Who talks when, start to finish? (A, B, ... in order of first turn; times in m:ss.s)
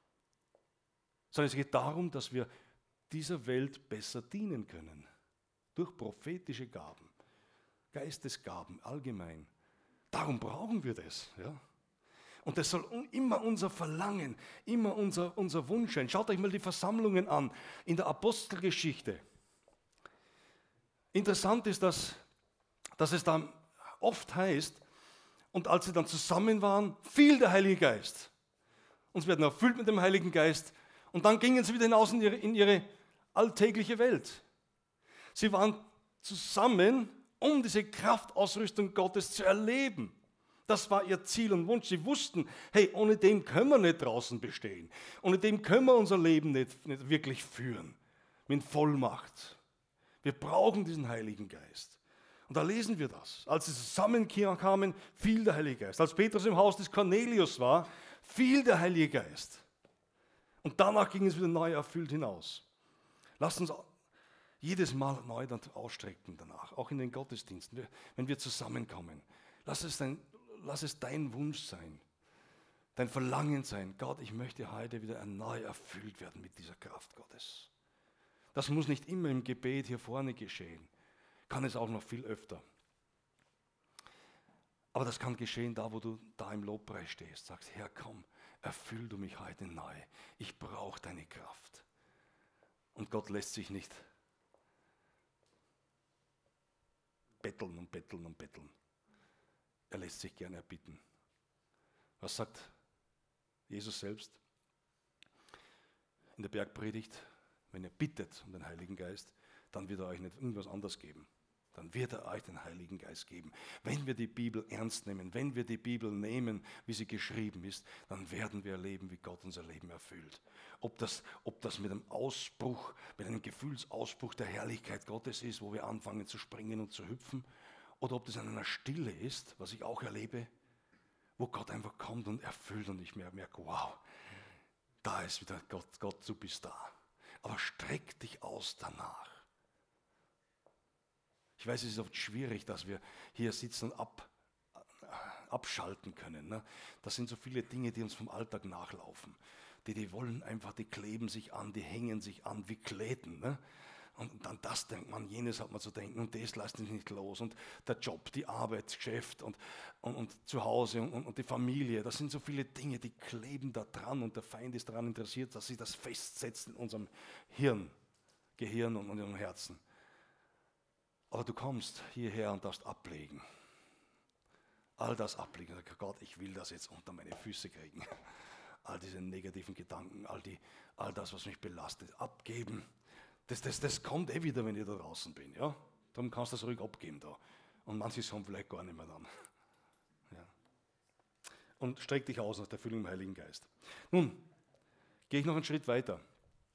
0:01.3-0:02.5 A
0:03.1-0:05.1 A
0:05.7-0:07.1 A
0:07.9-0:09.5 A
0:10.1-0:11.6 A
0:12.4-0:19.2 A
0:21.1-0:22.2 A
0:23.0-0:24.8 A
0:25.5-0:28.3 A
0:29.1-0:34.4 A
0:35.3-0:40.1 A
0:40.7-0:48.0 A
0:48.5-0:49.6 A
0:50.2-0:59.6 A
1:00.6-1:02.6 A
1:03.4-1:03.9 A
1:04.6-1:12.0 A
1:12.9-1:17.7 A
1:18.5-1:20.9 A
1:21.5-1:22.6 A
1:24.9-1:31.8 A
1:32.9-1:34.0 A
1:37.4-1:38.7 A
1:39.9-1:41.0 A
1:42.2-1:42.7 A
1:43.7-1:44.4 A
1:46.4-2:07.5 A
2:08.0-2:10.5 A
2:11.4-2:14.0 A
2:15.0-2:19.4 A
2:21.6-2:24.3 A
2:25.0-2:33.6 A
2:34.1-2:47.9 A
2:48.6-2:49.8 A
2:51.3-2:53.4 A
2:55.0-2:58.1 A
2:58.8-3:02.9 A
3:03.5-3:09.3 A
3:11.8-3:14.4 A
3:15.3-3:16.2 A